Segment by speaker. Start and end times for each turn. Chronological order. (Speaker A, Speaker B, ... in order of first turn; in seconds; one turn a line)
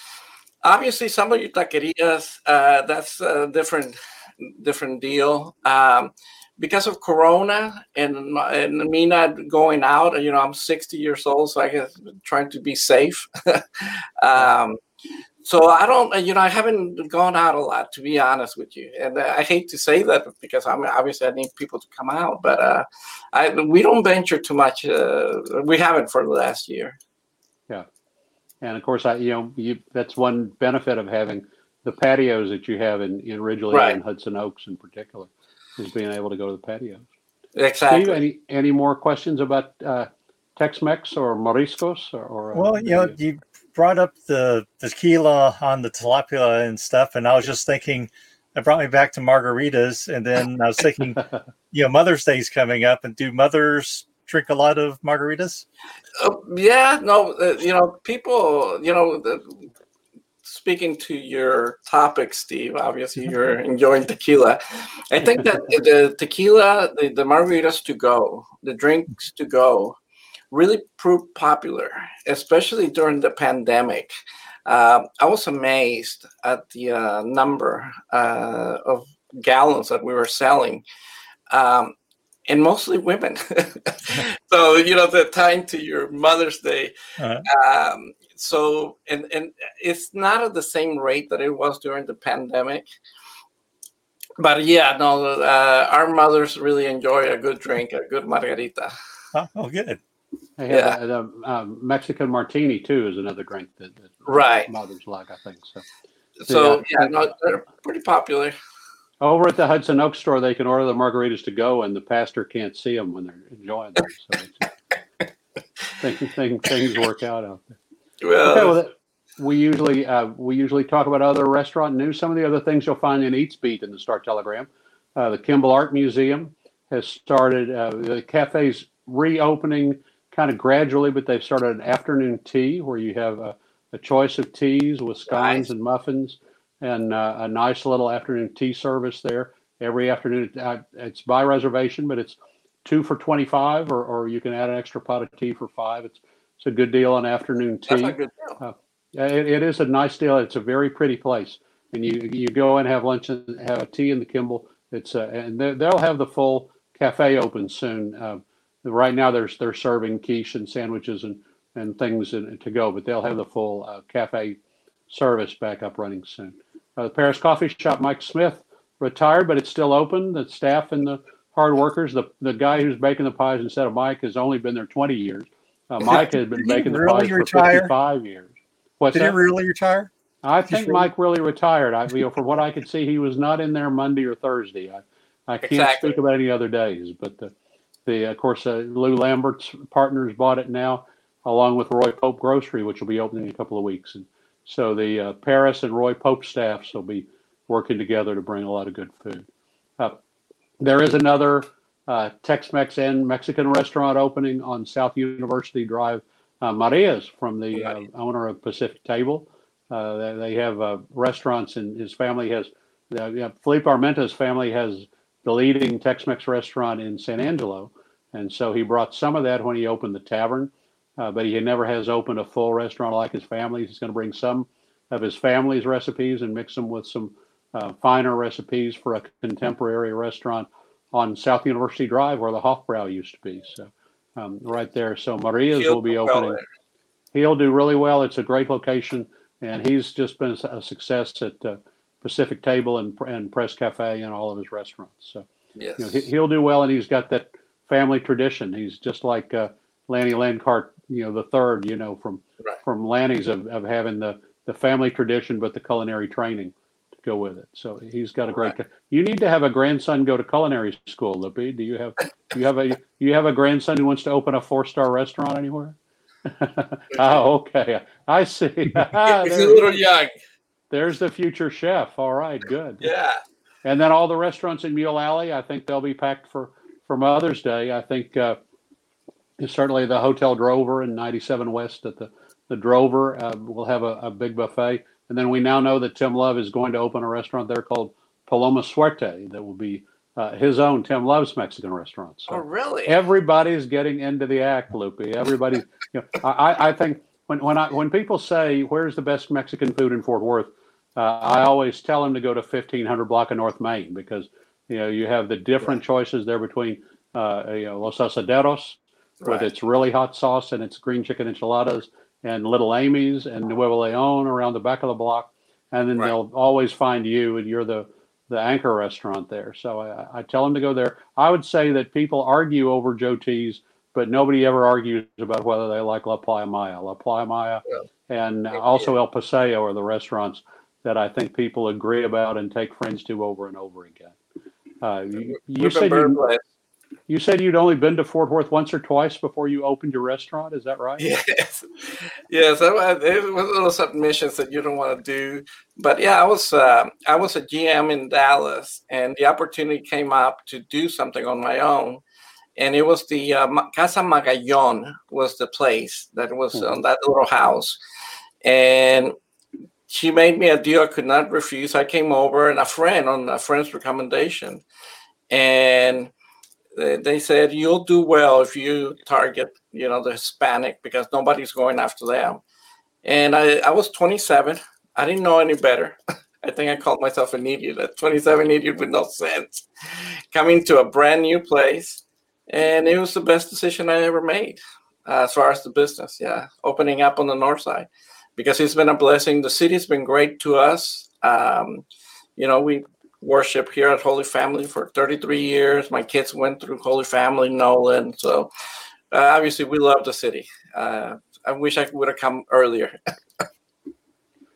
Speaker A: 0.6-14.8
Speaker A: 15.4-26.9
Speaker B: 28.6-37.1
Speaker A: 33.7-34.0
Speaker A: 37.5-38.2
Speaker B: 37.9-43.1
Speaker C: 42.5-55.6
Speaker A: 56.2-59.7
Speaker A: 60.4-70.0
Speaker A: 70.5-74.1
Speaker A: 74.7-80.8
Speaker A: 81.5-81.9
Speaker A: 82.5-86.9
Speaker C: 87.2-87.4
Speaker A: 87.4-92.8
Speaker A: 94.4-98.9
Speaker C: 99.3-100.0
Speaker B: 100.6-105.8
Speaker A: 100.7-101.0
Speaker A: 104.2-104.7
Speaker A: 106.4-108.5
Speaker B: 106.5-107.3
Speaker B: 109.2-114.7
Speaker B: 116.0-117.7
Speaker A: 118.2-118.7
Speaker B: 118.4-179.3
Speaker A: 135.3-135.7
Speaker A: 147.9-148.6
Speaker C: 176.0-177.9
Speaker C: 179.1-180.1
Speaker B: 180.4-187.5
Speaker C: 180.7-181.1
Speaker A: 185.6-186.2
Speaker B: 188.1-199.5
Speaker B: 200.8-236.6
Speaker A: 235.7-236.6
Speaker B: 237.3-245.5
Speaker A: 245.8-246.2
Speaker B: 246.0-270.0
Speaker A: 269.2-270.3
Speaker B: 270.9-273.1
Speaker A: 273.0-273.4
Speaker B: 273.8-278.6
Speaker B: 279.6-334.4
Speaker A: 292.5-293.2
Speaker A: 309.4-309.7
Speaker B: 335.0-336.4
Speaker A: 335.4-336.6
Speaker B: 337.3-341.2
Speaker A: 341.2-352.2
Speaker A: 352.8-358.0
Speaker A: 358.6-359.3
Speaker A: 360.1-364.8
Speaker A: 365.5-366.3
Speaker A: 366.9-372.6
Speaker A: 373.2-392.0
Speaker A: 392.6-398.7
Speaker A: 399.3-403.6